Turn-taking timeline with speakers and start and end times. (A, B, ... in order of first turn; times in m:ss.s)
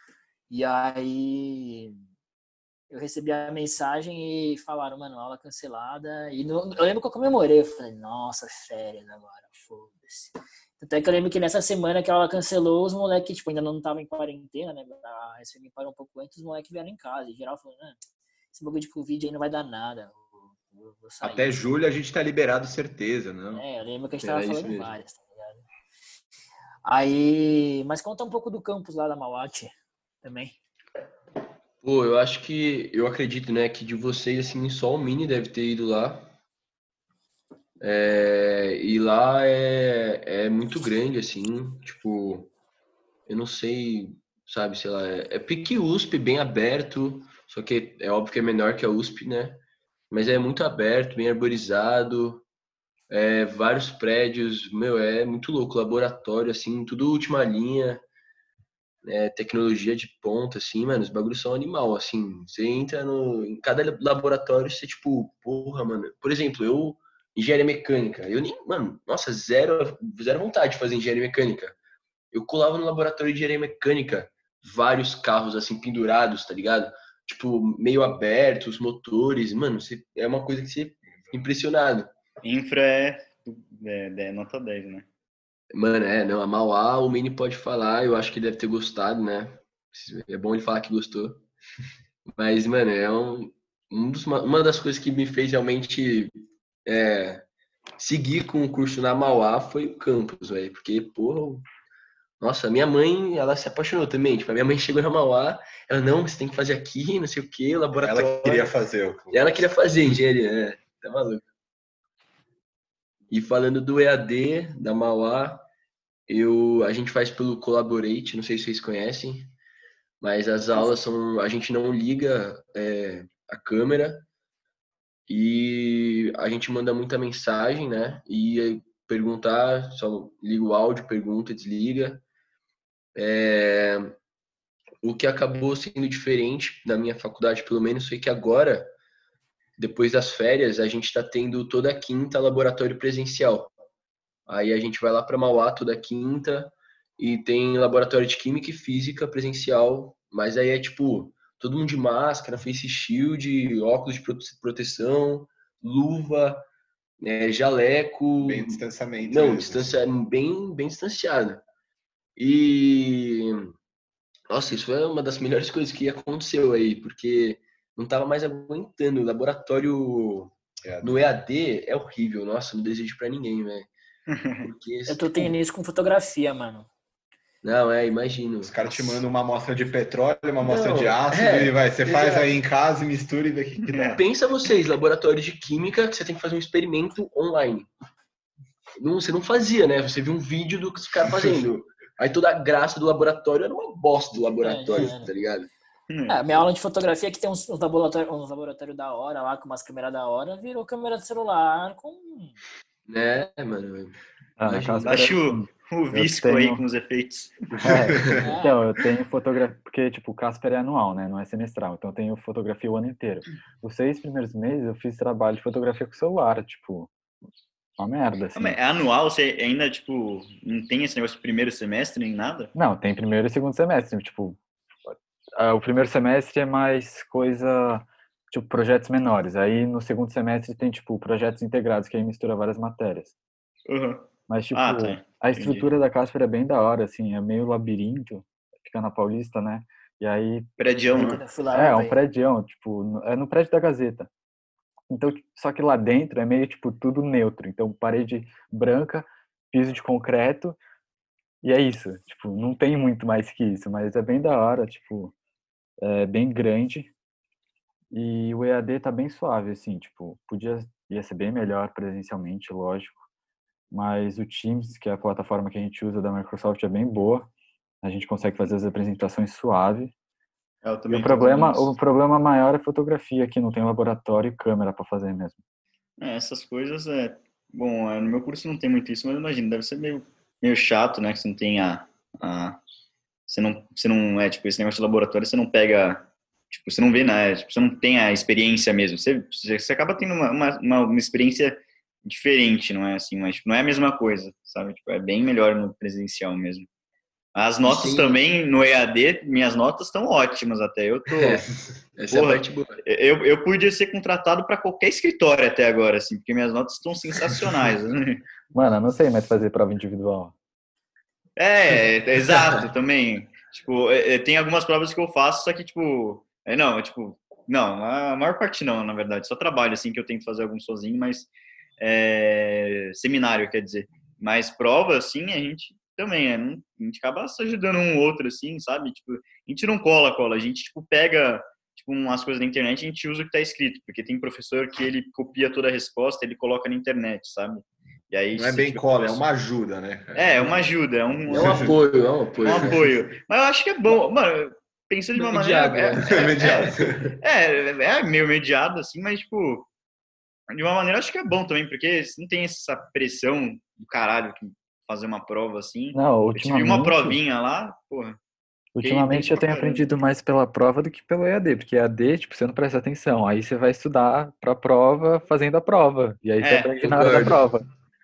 0:00.5-0:02.0 A
0:02.9-0:21.7 A
0:21.2-0:23.6 B
0:23.5-0:25.6 A
0:24.2-0:24.9 C
0:26.8-0:30.6 A
0:31.8-0:36.3 C
0:37.8-0:42.5 C
0:43.3-0:52.4 C
0:53.1-0:58.0 C
0:59.0-1:11.8 C
1:12.3-1:22.1 C
1:22.4-1:25.0 D
1:25.7-1:31.4 C
1:32.3-1:37.4 C
1:38.0-1:41.6 C
1:42.4-1:48.7 C
1:48.0-1:49.4 B
1:49.3-1:51.5 C
1:53.3-1:55.7 C
1:56.3-1:59.5 C
2:00.2-2:04.2 C
2:00.7-2:01.0 A
2:05.3-2:12.2 C
2:13.1-2:14.2 C
2:15.0-2:18.9 C
2:19.8-2:23.7 C
2:24.5-2:36.7 C
2:37.2-2:41.6 C
2:38.4-2:40.0 B
2:42.4-2:43.7 C
2:44.5-2:53.9 C
2:50.8-2:51.2 B
2:54.6-2:55.5 C
2:55.1-2:56.9 A
2:57.6-2:59.2 C
2:58.6-3:04.2 B
3:00.6-3:02.6 C
3:03.9-3:04.2 D
3:04.2-3:07.9 C
3:09.0-3:15.7 C
3:14.6-3:15.3 A
3:16.1-3:16.6 D
3:16.3-3:22.6 A
3:23.0-3:25.4 C
3:24.6-3:26.8 E
3:25.0-3:27.6 D
3:27.7-3:28.5 C
3:27.8-3:37.1 E
3:28.4-3:28.8 A
3:38.0-3:38.8 E
3:38.5-3:42.7 D
3:42.7-3:53.3 E
3:53.9-3:55.9 D
3:54.5-4:00.7 E
4:00.8-4:01.4 D
4:01.1-4:02.2 A
4:01.2-4:04.3 E
4:05.1-4:10.8 E
4:11.6-4:15.3 E
4:16.0-4:17.1 E
4:18.1-4:23.2 E
4:23.9-4:27.5 E
4:28.0-4:30.1 E
4:30.8-4:31.9 D
4:31.1-4:35.6 E
4:36.2-4:42.8 D
4:43.5-4:56.9 D
4:57.5-5:01.6 D
4:57.8-4:58.4 C
5:01.3-5:03.0 C
5:02.3-5:08.4 D
5:08.7-5:10.5 E
5:11.6-5:21.5 D
5:12.5-5:12.8 C
5:22.0-5:39.4 D
5:38.5-5:40.9 B
5:40.3-5:42.0 D
5:41.5-5:41.9 B
5:41.5-5:43.1 C
5:42.6-5:49.9 D
5:45.4-5:47.3 C
5:46.3-5:47.4 B
5:50.7-5:58.4 D
5:56.1-5:57.4 E
5:58.9-6:07.8 E
5:59.0-6:00.1 D
6:06.6-6:07.0 D
6:07.0-6:07.7 C